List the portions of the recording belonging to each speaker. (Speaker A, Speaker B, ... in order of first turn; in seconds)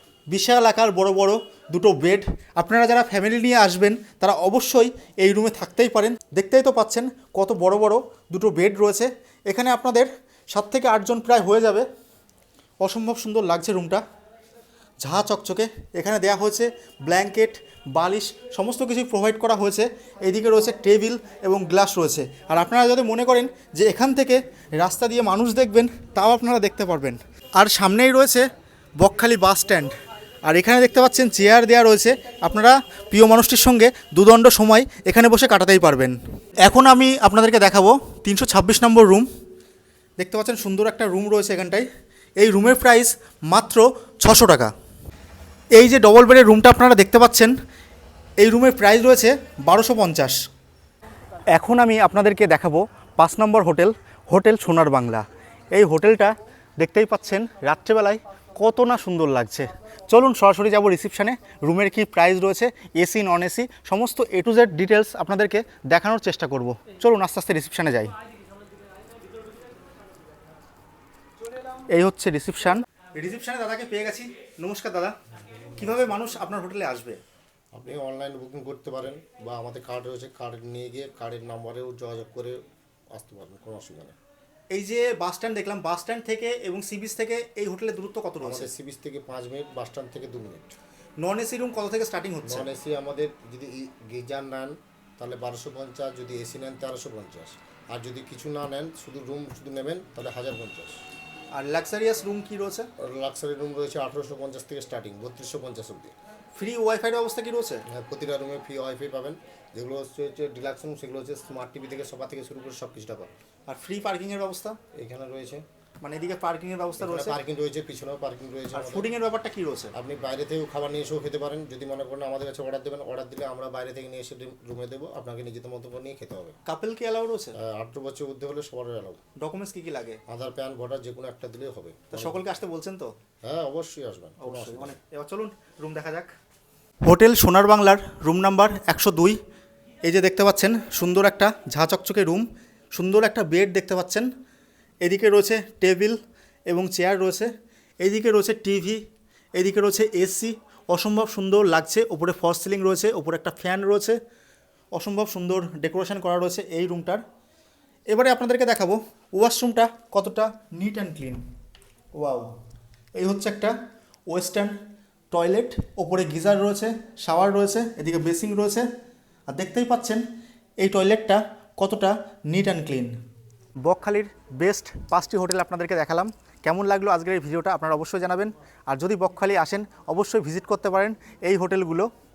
Speaker A: 0.3-11.9, 12.8-14.0, 15.0-28.5, 29.0-29.9, 30.4-39.3, 40.2-41.9, 42.4-44.7, 45.8-47.5, 48.4-50.4, 51.6-68.1, 71.9-75.2, 75.8-77.2, 84.7-88.7, 91.2-92.7, 101.5-102.9, 106.5-107.8, 113.7-114.8, 116.0-117.4, 118.7-119.9, 126.7-127.6, 129.4-130.2, 132.1-133.1, 134.4-136.3, 137.1-139.4, 140.0-144.3, 145.0-146.2, 146.7-147.5, 148.0-149.0, 149.6-154.2, 154.9-157.2, 158.1-161.4, 162.2-162.5, 163.2-163.7, 164.3-164.7, 165.3-168.9, 169.5-170.2, 170.8-173.1, 173.8-182.1
Speaker B: 77.7-82.6, 83.1-84.2, 88.4-90.8, 92.4-101.0, 103.0-106.1, 107.9-113.3, 115.0-115.6, 117.0-119.1, 120.0-126.6, 127.6-129.2, 130.3-132.4, 133.4-135.0